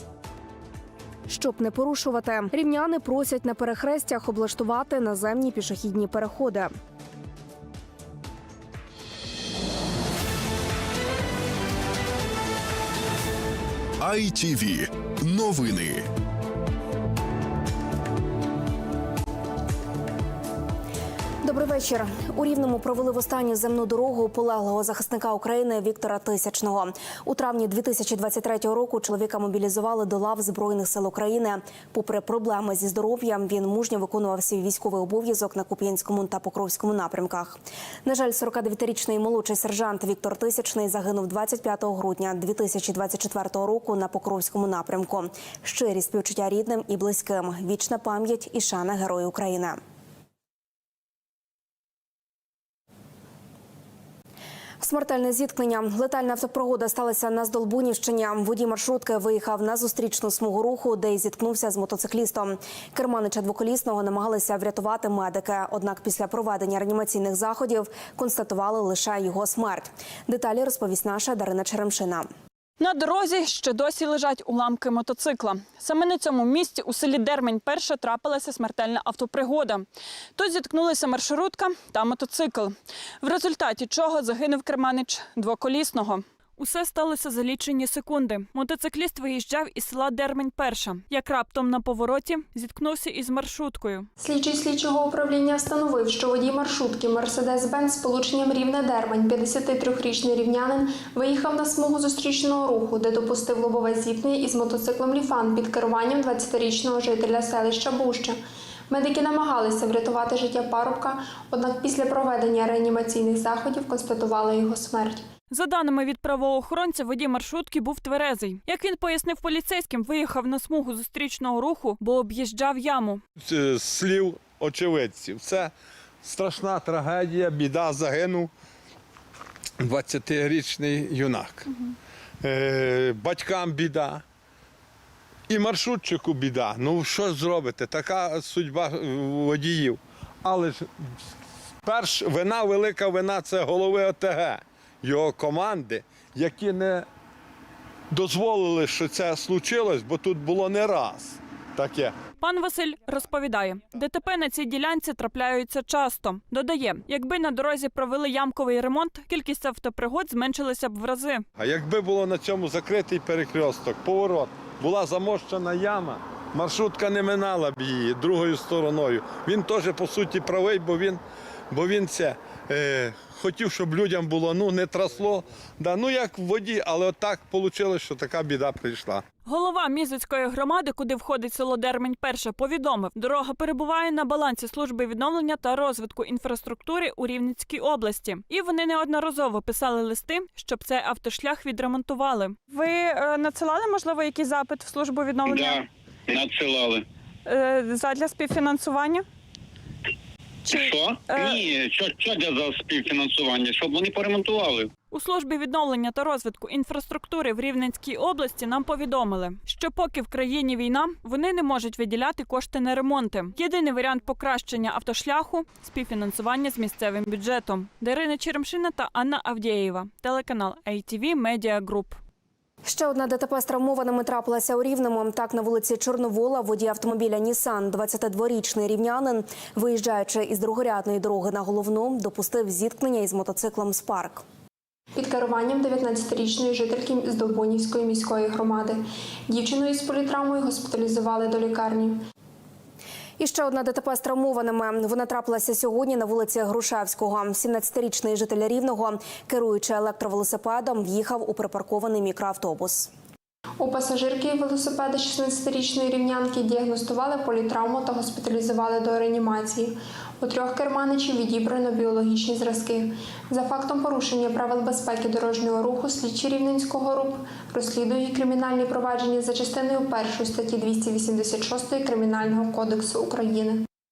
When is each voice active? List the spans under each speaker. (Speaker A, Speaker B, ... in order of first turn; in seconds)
Speaker A: 1.3-6.7, 21.4-49.8, 54.8-72.3, 222.8-234.4, 243.4-253.1
Speaker B: 14.0-16.0
Speaker C: 72.8-79.8, 80.4-94.1, 115.5-123.2, 152.4-161.4, 179.4-195.8, 197.4-199.2, 200.6-201.7, 205.1-222.2
Speaker D: 94.2-108.3, 108.9-115.2, 235.2-242.2, 253.8-273.8
Speaker E: 123.4-125.7, 126.2-128.5, 129.8-131.7, 132.4-134.2, 135.5-140.9, 141.8-147.1, 148.1-152.1, 161.6-171.2, 171.7-179.2
Speaker F: 196.3-197.0, 201.4-204.8